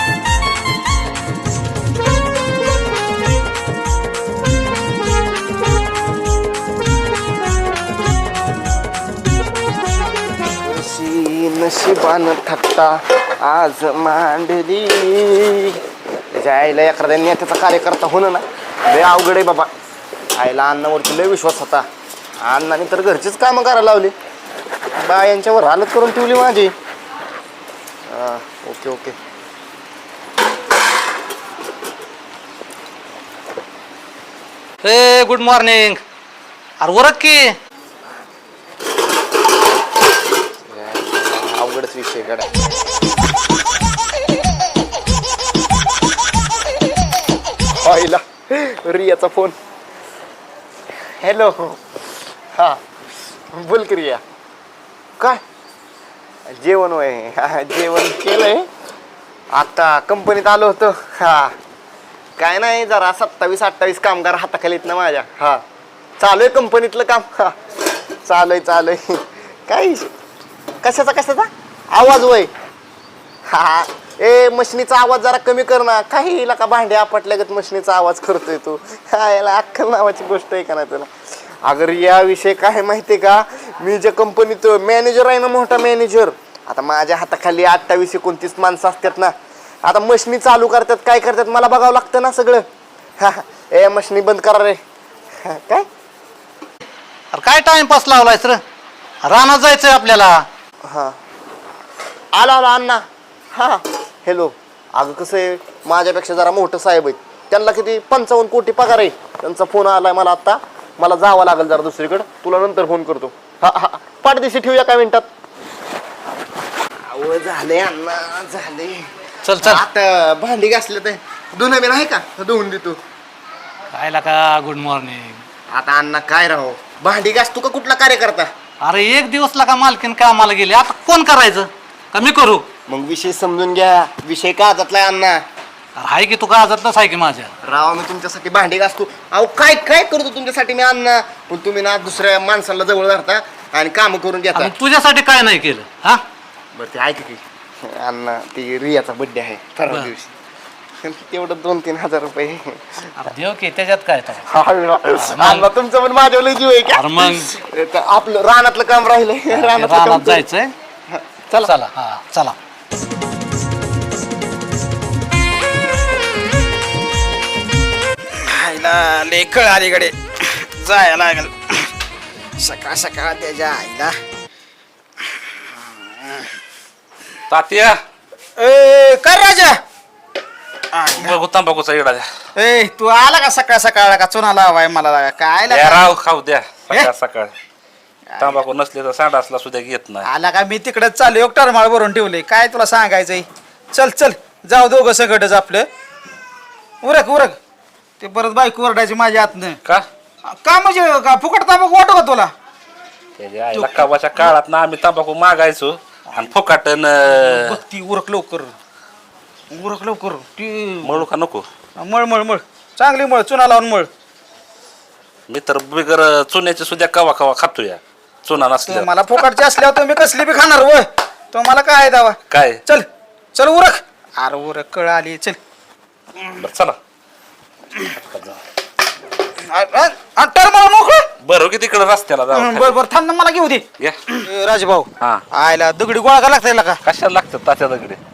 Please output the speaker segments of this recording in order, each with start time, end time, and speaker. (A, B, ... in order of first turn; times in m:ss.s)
0:10.6-0:15.8 A
0:16.4-0:19.7 A
0:20.4-0:21.8 A
0:22.4-0:24.1 A
0:25.0-0:26.7 A
0:28.1-0:29.1 A
0:34.8-0:36.0 B
0:36.8-0:37.6 B
0:40.7-0:42.5 A
0:47.8-0:49.5 A
0:51.2-0:51.8 A
0:53.5-0:54.2 A
0:56.5-0:58.7 A
0:59.5-1:01.5 A
1:02.4-1:05.6 A
1:06.2-1:07.5 A
1:08.2-1:10.1 A
1:10.8-1:12.5 A
1:13.5-1:21.1 A
1:21.6-1:32.6 A
1:33.2-1:34.8 A
1:35.4-1:35.8 A
1:37.3-1:38.6 B
1:39.2-1:40.4 B
1:40.9-1:41.1 A
1:42.3-1:55.2 A
1:57.1-2:03.0 A
1:59.4-1:59.8 B
2:03.9-2:05.4 B
2:05.7-2:08.5 A
2:08.8-2:12.7 B
2:12.9-2:15.4 A
2:16.0-2:17.5 B
2:17.6-2:24.7 A
2:24.5-2:26.2 B
2:26.8-2:30.3 A
2:31.0-2:32.9 A
2:33.2-2:34.5 B
2:34.5-2:40.4 A
2:35.2-2:35.7 B
2:36.9-2:37.5 B
2:39.5-2:40.7 B
2:41.1-2:41.8 A
2:41.6-2:42.6 B
2:48.4-2:51.9 C
2:52.6-2:54.2 C
2:56.0-2:56.4 C
2:57.5-2:58.0 D
2:58.6-2:59.8 C
3:00.9-3:01.4 C
3:01.2-3:02.2 D
3:02.6-3:06.2 C
3:05.7-3:07.5 D
3:08.3-3:08.6 C
3:08.4-3:10.3 D
3:10.2-3:15.9 C
3:17.0-3:17.6 C
3:18.2-3:19.8 C
3:20.5-3:22.5 C
3:23.4-3:27.7 D
3:23.7-3:24.4 C
3:27.3-3:28.7 C
3:29.7-3:31.2 C
3:31.0-3:31.6 D
3:32.0-3:34.1 C
3:35.5-3:39.1 D
3:38.8-3:45.6 C
3:42.5-3:42.8 D
3:46.6-3:47.0 D
3:48.3-3:48.6 D
3:49.7-3:51.2 C
3:51.4-3:53.0 D
3:52.5-3:53.8 C
3:54.4-3:57.0 C
3:57.0-3:58.2 D